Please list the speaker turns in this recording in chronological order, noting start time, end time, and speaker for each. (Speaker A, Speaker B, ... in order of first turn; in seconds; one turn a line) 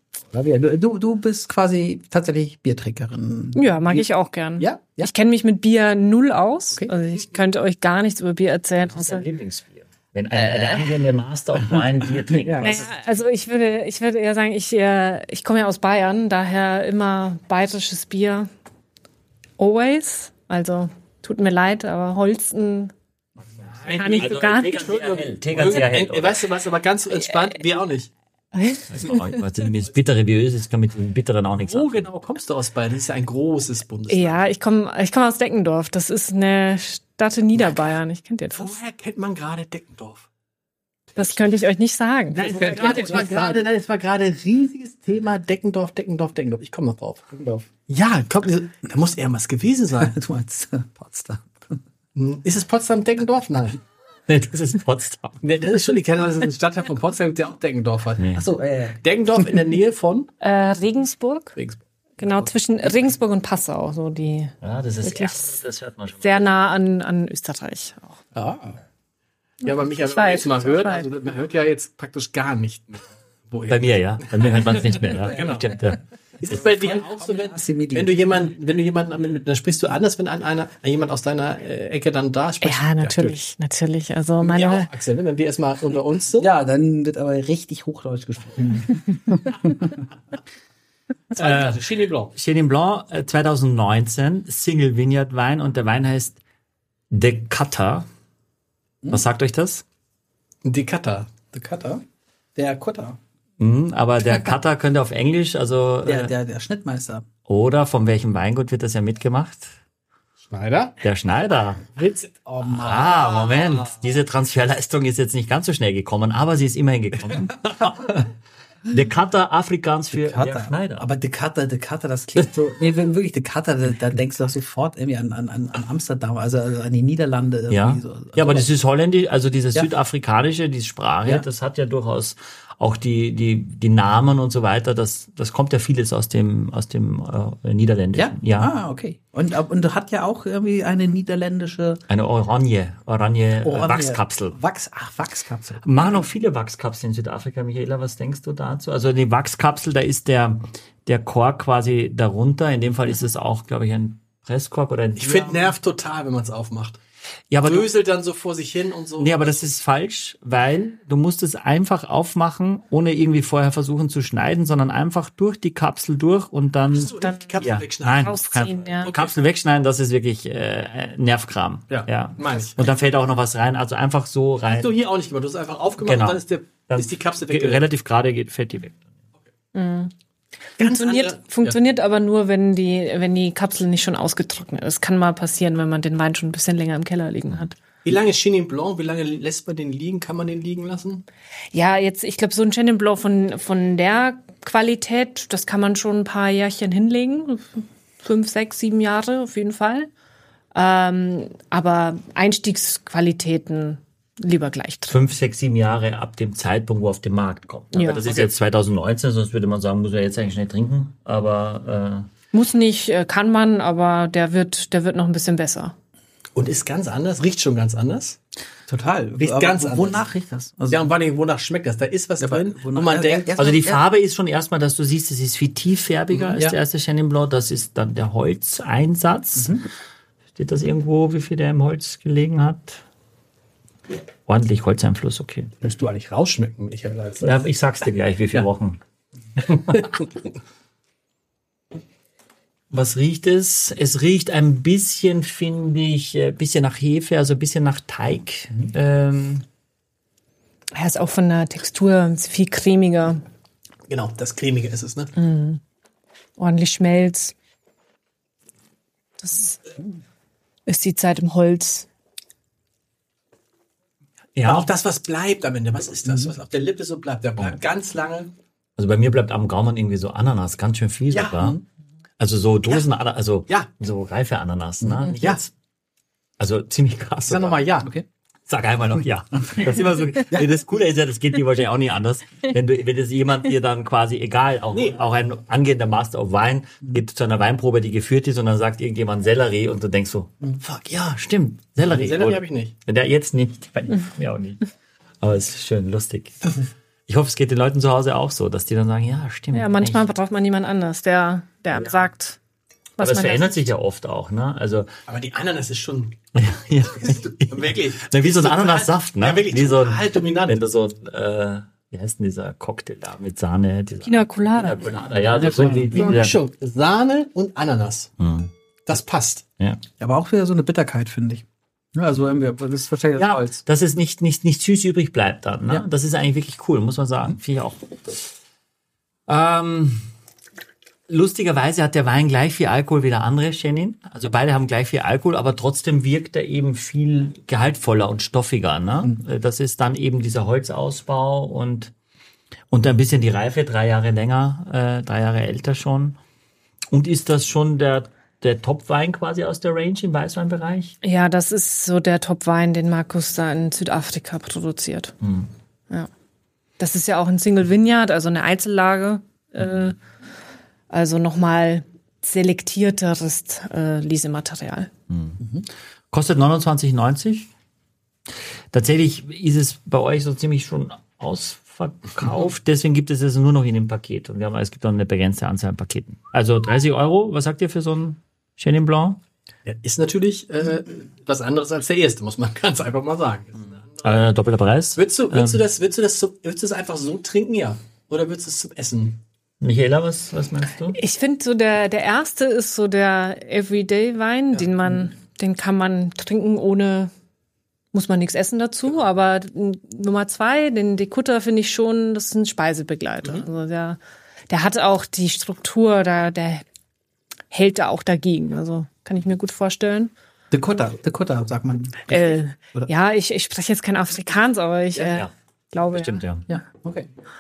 Speaker A: 0.3-4.0
Speaker B: 3.5-9.3
Speaker A: 4.7-5.1
Speaker C: 8.9-12.9
Speaker B: 10.5-10.8
Speaker A: 12.3-12.9
Speaker B: 12.6-18.5
Speaker B: 19.6-22.9
Speaker C: 23.6-26.5
Speaker D: 23.8-24.4
Speaker B: 23.9-25.2
Speaker D: 25.1-28.1
Speaker B: 28.6-28.9
Speaker C: 28.9-32.1
Speaker D: 31.6-34.4
Speaker B: 34.1-38.8
Speaker D: 38.5-40.3
Speaker B: 41.2-43.4
Speaker D: 42.3-50.1
Speaker A: 42.5-43.6
Speaker A: 47.4-47.6
Speaker A: 50.0-51.8
Speaker D: 52.1-53.8
Speaker C: 54.3-55.4
Speaker D: 55.4-58.2
Speaker C: 58.2-58.5
Speaker A: 58.3-59.0
Speaker D: 59.0-60.3
Speaker B: 60.4-61.6
Speaker D: 61.6-61.8
Speaker B: 62.2-65.6
Speaker C: 64.6-66.5
Speaker B: 66.2-68.2
Speaker D: 68.4-68.7
Speaker D: 69.6-75.8
Speaker B: 70.0-71.1
Speaker C: 73.7-76.0
Speaker D: 76.4-83.4
Speaker A: 76.5-78.2
Speaker B: 82.6-84.9
Speaker D: 84.4-86.5
Speaker A: 86.4-90.0
Speaker D: 91.3-92.3
Speaker C: 91.4-91.8
Speaker C: 92.3-96.4
Speaker C: 97.1-98.1
Speaker C: 99.1-99.8
Speaker D: 100.6-102.0
Speaker A: 102.6-103.2
Speaker C: 103.6-106.3
Speaker A: 106.0-107.3
Speaker C: 107.5-109.7
Speaker D: 110.5-111.0
Speaker C: 111.0-111.9
Speaker D: 112.0-113.9
Speaker A: 112.5-113.3
Speaker C: 112.6-118.3
Speaker C: 118.9-121.1
Speaker A: 120.1-128.7
Speaker C: 127.7-138.7
Speaker A: 138.1-142.0
Speaker C: 142.1-144.6
Speaker A: 143.6-145.8
Speaker C: 145.8-155.7
Speaker D: 155.2-157.0
Speaker C: 157.5-157.9
Speaker D: 157.6-159.7
Speaker C: 159.2-174.9
Speaker D: 166.9-168.5
Speaker B: 167.1-169.1
Speaker D: 169.0-169.4
Speaker D: 171.9-172.8
Speaker D: 174.7-177.8
Speaker C: 176.0-179.0
Speaker B: 179.7-180.1
Speaker B: 180.8-187.8
Speaker D: 180.8-181.8
Speaker D: 188.1-191.2
Speaker B: 191.7-200.1
Speaker B: 200.7-205.3
Speaker C: 205.1-212.3
Speaker B: 207.9-208.2
Speaker D: 208.2-208.5
Speaker B: 212.5-215.9
Speaker D: 216.6-218.4
Speaker A: 218.9-221.1
Speaker D: 219.4-220.2
Speaker D: 220.9-223.6
Speaker A: 222.4-224.0
Speaker C: 223.6-229.8
Speaker A: 229.6-229.9
Speaker C: 230.6-233.0
Speaker C: 234.5-235.8
Speaker D: 235.8-237.6
Speaker C: 237.4-239.0
Speaker C: 239.6-240.0
Speaker D: 239.9-240.3
Speaker C: 242.9-249.7
Speaker B: 250.9-253.4
Speaker D: 254.1-255.3
Speaker B: 255.4-255.8
Speaker B: 256.6-257.5
Speaker B: 259.4-260.0
Speaker B: 260.9-262.1
Speaker C: 264.6-264.9
Speaker D: 264.6-268.5
Speaker A: 266.3-266.5
Speaker C: 269.0-271.8
Speaker D: 271.3-271.6
Speaker A: 271.6-271.8
Speaker C: 272.4-275.7
Speaker A: 275.0-275.3
Speaker D: 275.4-275.6
Speaker C: 276.6-277.9
Speaker D: 277.5-278.1
Speaker C: 278.7-294.8
Speaker D: 284.9-285.2
Speaker D: 292.0-292.9
Speaker C: 295.4-296.7
Speaker C: 297.3-300.3
Speaker B: 299.7-302.6
Speaker C: 301.9-302.2
Speaker B: 303.2-303.9
Speaker C: 303.2-305.1
Speaker D: 305.3-306.4
Speaker C: 306.6-316.6
Speaker D: 307.2-310.8
Speaker B: 314.2-315.2
Speaker A: 315.5-316.5
Speaker D: 316.1-318.3
Speaker C: 318.4-318.7
Speaker D: 319.1-319.6
Speaker A: 320.2-323.8
Speaker C: 323.4-328.5
Speaker C: 329.5-330.2
Speaker C: 331.3-342.1
Speaker C: 342.9-346.4
Speaker C: 347.1-351.2
Speaker B: 351.2-355.4
Speaker C: 355.4-355.7
Speaker B: 357.0-360.2
Speaker B: 361.1-365.1
Speaker C: 365.3-365.6
Speaker A: 365.6-365.9
Speaker C: 366.3-367.7
Speaker C: 368.9-379.4
Speaker D: 379.9-384.5
Speaker C: 384.2-385.8
Speaker D: 385.2-389.4
Speaker C: 389.8-391.2
Speaker B: 391.1-397.3
Speaker B: 398.1-404.2
Speaker B: 404.7-406.8
Speaker B: 407.7-410.3
Speaker A: 410.7-413.1
Speaker B: 412.3-416.4
Speaker C: 416.1-416.7
Speaker A: 416.7-417.3